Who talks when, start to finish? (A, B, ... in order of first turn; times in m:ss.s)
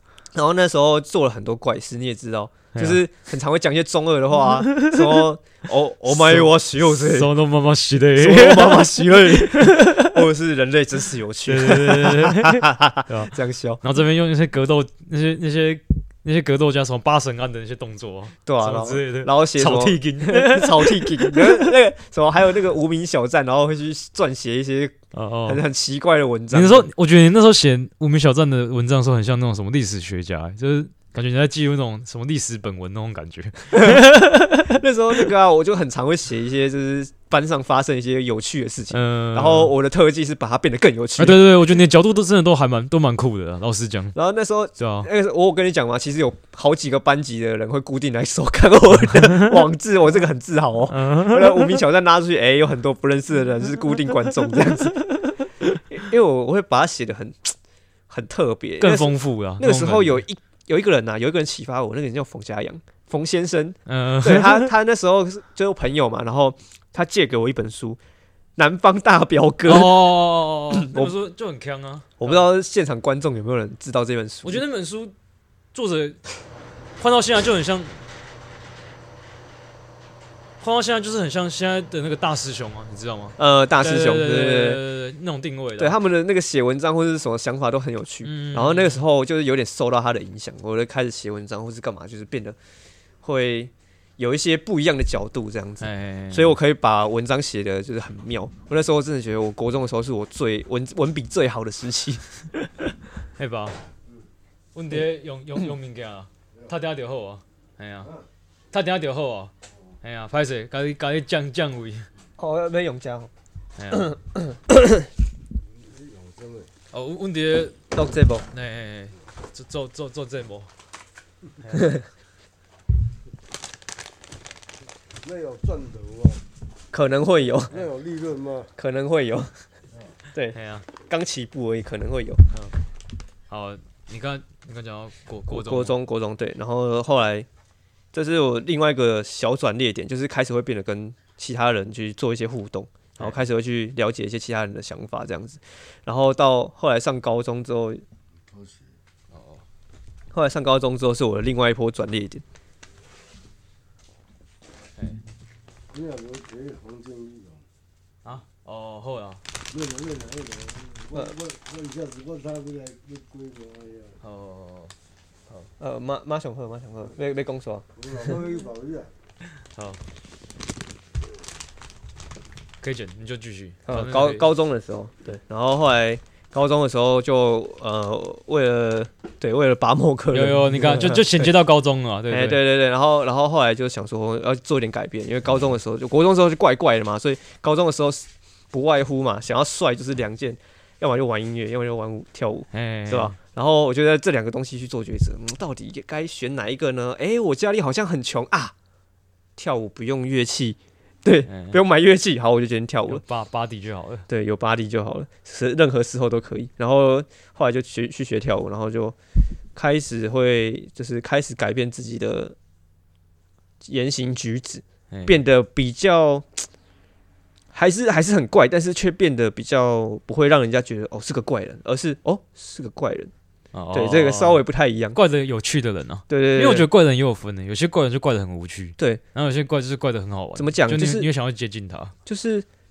0:00.3-0:07.3 A
0:02.7-0:03.0 B
0:04.6-0:05.2 B
0:06.1-0:10.2 B
0:08.2-0:13.8 A
0:11.5-0:21.7 B
0:18.4-0:26.9 A
0:25.1-0:25.6 B
0:26.5-0:34.7 B
0:33.7-0:41.4 A
0:38.9-0:39.7 B
0:41.2-0:44.2 B
0:44.2-0:55.3 A
0:44.8-0:45.1 B
0:49.0-0:49.6 B
0:50.9-0:51.8 B
0:55.9-0:57.6 A
0:58.1-1:08.0 A
0:58.8-1:00.2 B
1:03.9-1:04.7 B
1:08.6-1:10.1 A
1:09.7-1:12.5 B
1:10.7-1:11.1 A
1:12.2-1:14.6 A
1:14.4-1:15.1 B
1:15.7-1:16.2 B
1:17.0-1:18.0 B
1:20.6-1:26.0 B
1:23.4-1:24.8 A
1:25.8-1:32.6 A
1:28.2-1:29.0 B
1:33.2-1:42.7 A
1:35.8-1:36.6 B
1:43.4-1:43.8 B
1:44.7-1:48.1 B
1:48.7-1:52.1 B
1:52.4-1:53.3 A
1:53.8-1:54.1 B
1:53.9-1:55.0 A
1:55.7-1:56.7 C
1:56.9-1:57.8 B
1:57.9-1:58.5 A
1:58.5-2:00.7 B
2:01.6-2:01.9 B
2:05.2-2:06.4 C
2:06.9-2:07.9 A
2:07.7-2:08.7 C
2:08.8-2:09.6 A
2:10.3-2:12.5 A
2:10.5-2:10.9 B
2:13.5-2:16.0 B
2:15.5-2:17.5 A
2:18.1-2:28.0 A
2:28.5-2:29.0 C
2:29.3-2:29.6 B
2:30.3-2:32.4 A
2:35.0-2:35.2 B
2:35.9-2:37.7 C
2:38.2-2:39.4 B
2:39.7-2:44.2 C
2:44.2-2:44.9 B
2:45.8-2:48.4 A
2:48.0-2:49.1 C
2:49.7-2:50.0 B
2:52.8-2:54.5 B
2:53.9-3:01.5 A
3:00.3-3:02.6 B
3:02.3-3:18.7 A
3:12.7-3:13.4 B
3:19.6-3:23.2 A
3:21.5-3:21.8 B
3:23.1-3:24.3 B
3:24.3-3:29.2 A
3:29.8-3:32.6 A
3:33.8-3:36.7 A
3:35.1-3:35.4 B
3:37.7-3:43.3 A
3:43.7-3:52.1 B
3:43.9-3:45.2 A
3:46.3-3:46.9 A
3:50.6-3:51.3 A
3:52.3-3:52.7 A